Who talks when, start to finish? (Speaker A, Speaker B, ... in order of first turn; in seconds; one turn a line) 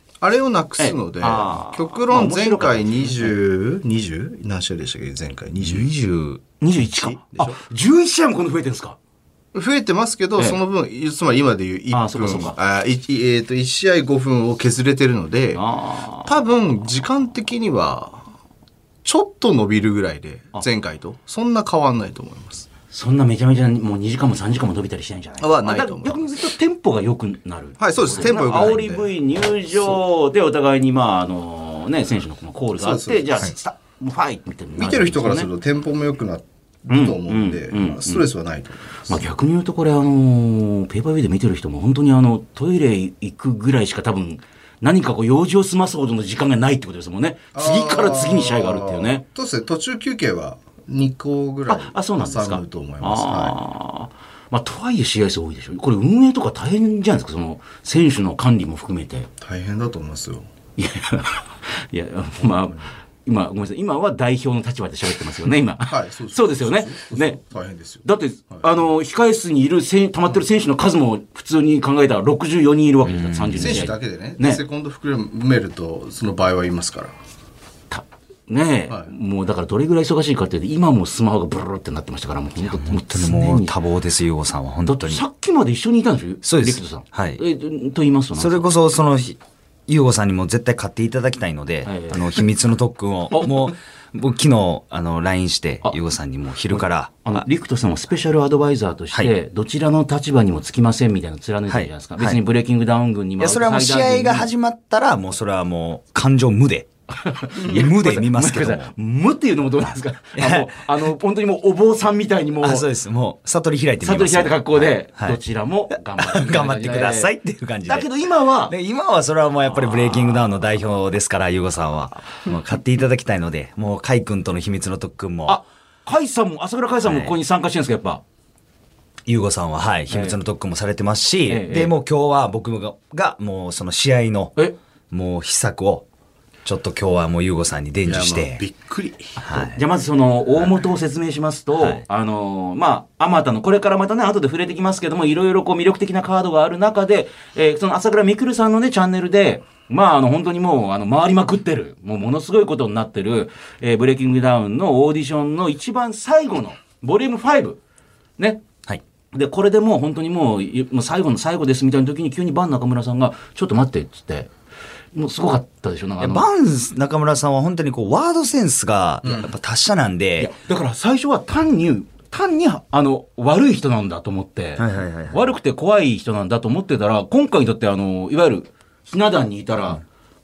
Speaker A: 0.2-5.9
Speaker B: 0.8-3.3
Speaker C: 5.6-6.4
Speaker B: 6.6-9.0
Speaker A: 6.8-7.6
Speaker A: 9.5-15.6
Speaker B: 11.9-12.6
Speaker B: 15.5-16.3
Speaker A: 16.2-18.2
Speaker A: 19.1-22.7
Speaker B: 22.9-35.5
Speaker A: 25.4-26.4
Speaker A: 27.8-29.1
Speaker A: 32.8-33.5
Speaker A: 34.8-39.2
Speaker B: 36.9-38.3
Speaker B: 39.1-49.2
Speaker A: 47.5-53.6
Speaker B: 51.7-59.3
Speaker A: 59.4-60.5
Speaker B: 60.8-67.4
Speaker A: 65.9-68.8
Speaker B: 68.0-74.6
Speaker C: 73.1-73.9
Speaker A: 73.6-77.1
Speaker B: 77.9-83.8
Speaker C: 82.6-85.2
Speaker B: 84.8-88.6
Speaker C: 86.4-87.4
Speaker C: 88.4-97.2
Speaker B: 91.8-92.4
Speaker B: 93.3-93.7
Speaker B: 96.7-104.5
Speaker C: 101.7-102.4
Speaker C: 103.4-106.9
Speaker B: 107.1-112.8
Speaker C: 107.5-108.9
Speaker C: 110.4-110.9
Speaker C: 112.6-115.4
Speaker B: 114.0-117.3
Speaker C: 116.2-118.1
Speaker B: 117.8-118.7
Speaker C: 118.7-125.6
Speaker B: 119.7-120.4
Speaker B: 125.5-128.2
Speaker C: 127.1-127.3
Speaker C: 129.3-134.5
Speaker B: 130.1-130.4
Speaker B: 131.5-131.9
Speaker C: 135.1-136.1
Speaker C: 136.7-138.6
Speaker A: 138.1-139.4
Speaker C: 139.4-139.8
Speaker B: 139.5-157.8
Speaker C: 141.8-142.0
Speaker B: 159.3-164.5
Speaker B: 165.1-166.5
Speaker C: 166.2-170.5
Speaker A: 169.2-169.5
Speaker B: 170.4-180.0
Speaker C: 174.8-175.5